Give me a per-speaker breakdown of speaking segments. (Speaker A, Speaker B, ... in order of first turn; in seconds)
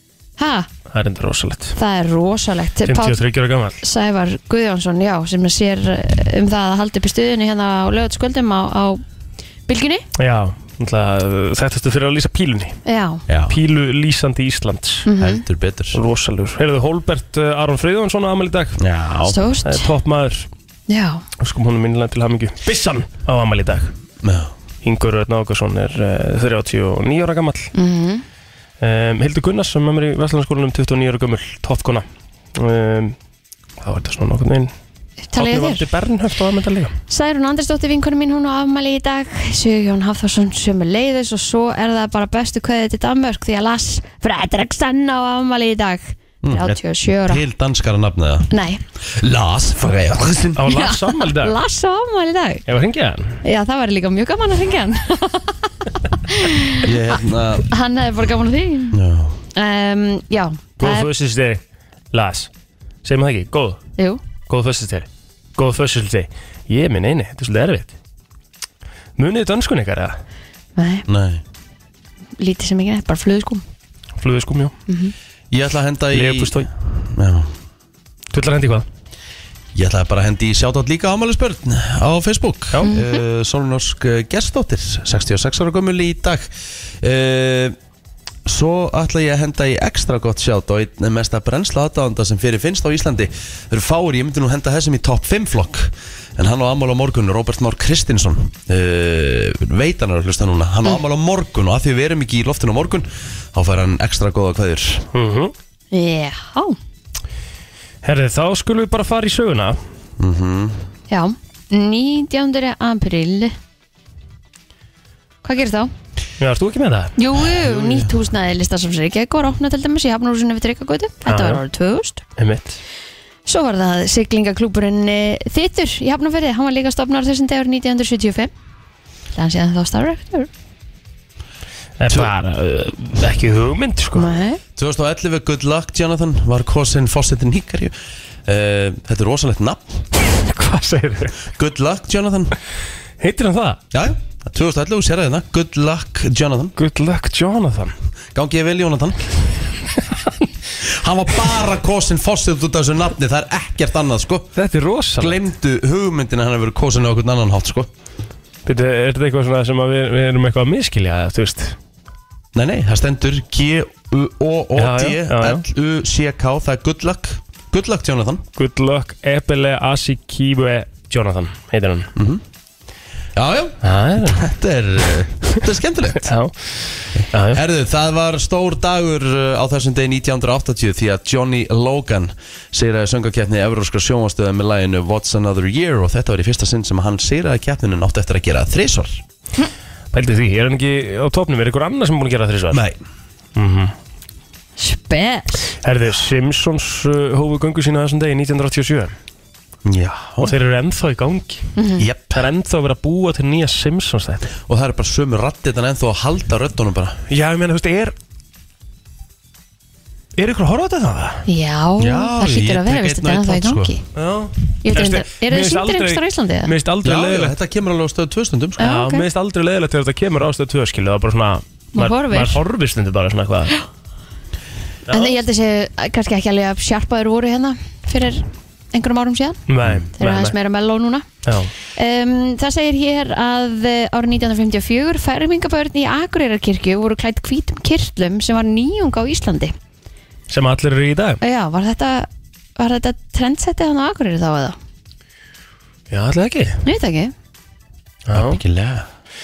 Speaker A: 0.4-0.7, 1.8-3.2, 3.8-9.0, 9.7-10.1, 12.9-13.2, 15.1-15.4, 19.3-19.9, 20.9-21.2, 27.7-28.2, 35.3-35.8, 37.1-47.4, 48.5-48.8, 50.7-52.6, 53.4-55.7, 56.3-56.8, 57.7-59.0, 59.5-61.1, 70.8-71.0, 72.4-73.6, 74.9-75.1, 82.8-83.2, 105.9-106.8, 111.1-113.5, 115.4-115.9, 117.2-122.2, 123.5-128.5, 129.3-130.5, 134.1-134.6, 194.8-195.6, 201.8-202.1, 211.5-214.0, 214.8-216.7, 218.8-219.2, 221.9-222.6, 225.1-229.6, 230.2-231.3, 231.9-239.7, 241.4-244.8, 246.8-247.3
Speaker B: 0.9-1.8, 2.9-3.8, 10.2-12.8, 13.5-15.1, 15.9-18.8, 19.6-20.5, 21.4-23.9, 24.8-27.7, 28.8-33.1, 33.8-34.7, 35.4-36.9, 50.6-51.5, 52.7-53.4, 60.8-61.6, 62.1-62.5, 63.0-63.8, 64.5-67.9, 69.2-70.2, 74.2-74.8, 76.1-76.7, 78.3-78.9, 105.1-105.5, 108.0-109.8, 116.4-117.1, 121.3-121.6, 122.4-122.8, 132.0-134.3, 140.4-141.4, 143.2-143.8, 146.8-147.9, 154.6-155.4, 158.7-161.8, 164.8-165.6, 168.6-172.1, 173.8-174.5, 176.2-177.6, 190.1-192.8, 193.6-193.9, 195.8-199.1, 200.4-201.7, 202.3-204.5, 207.3-208.1, 210.4-211.5, 214.2-217.6, 218.8-223.7, 225.1-225.4, 229.7-230.6, 231.4-231.7, 240.5-241.4, 246.1-246.8, 248.3-248.6
Speaker C: 13.3-13.6, 15.2-16.0, 18.8-19.4, 24.2-24.5, 46.4-50.6, 56.8-57.6, 58.9-59.4, 71.1-71.4, 75.5-77.5, 79.7-86.5, 87.0-87.8, 88.5-105.0, 110.2-110.8, 117.5-118.1, 134.8-137.9, 138.5-140.1, 141.5-142.6, 143.9-146.8, 148.3-149.3, 150.8-154.5, 155.2-157.9, 162.6-168.5, 172.2-172.4, 173.4-176.3, 177.1-189.2, 192.7-193.0, 199.8-200.5, 202.0-202.4, 204.7-207.2, 212.0-213.9, 217.0-218.9, 248.3-249.1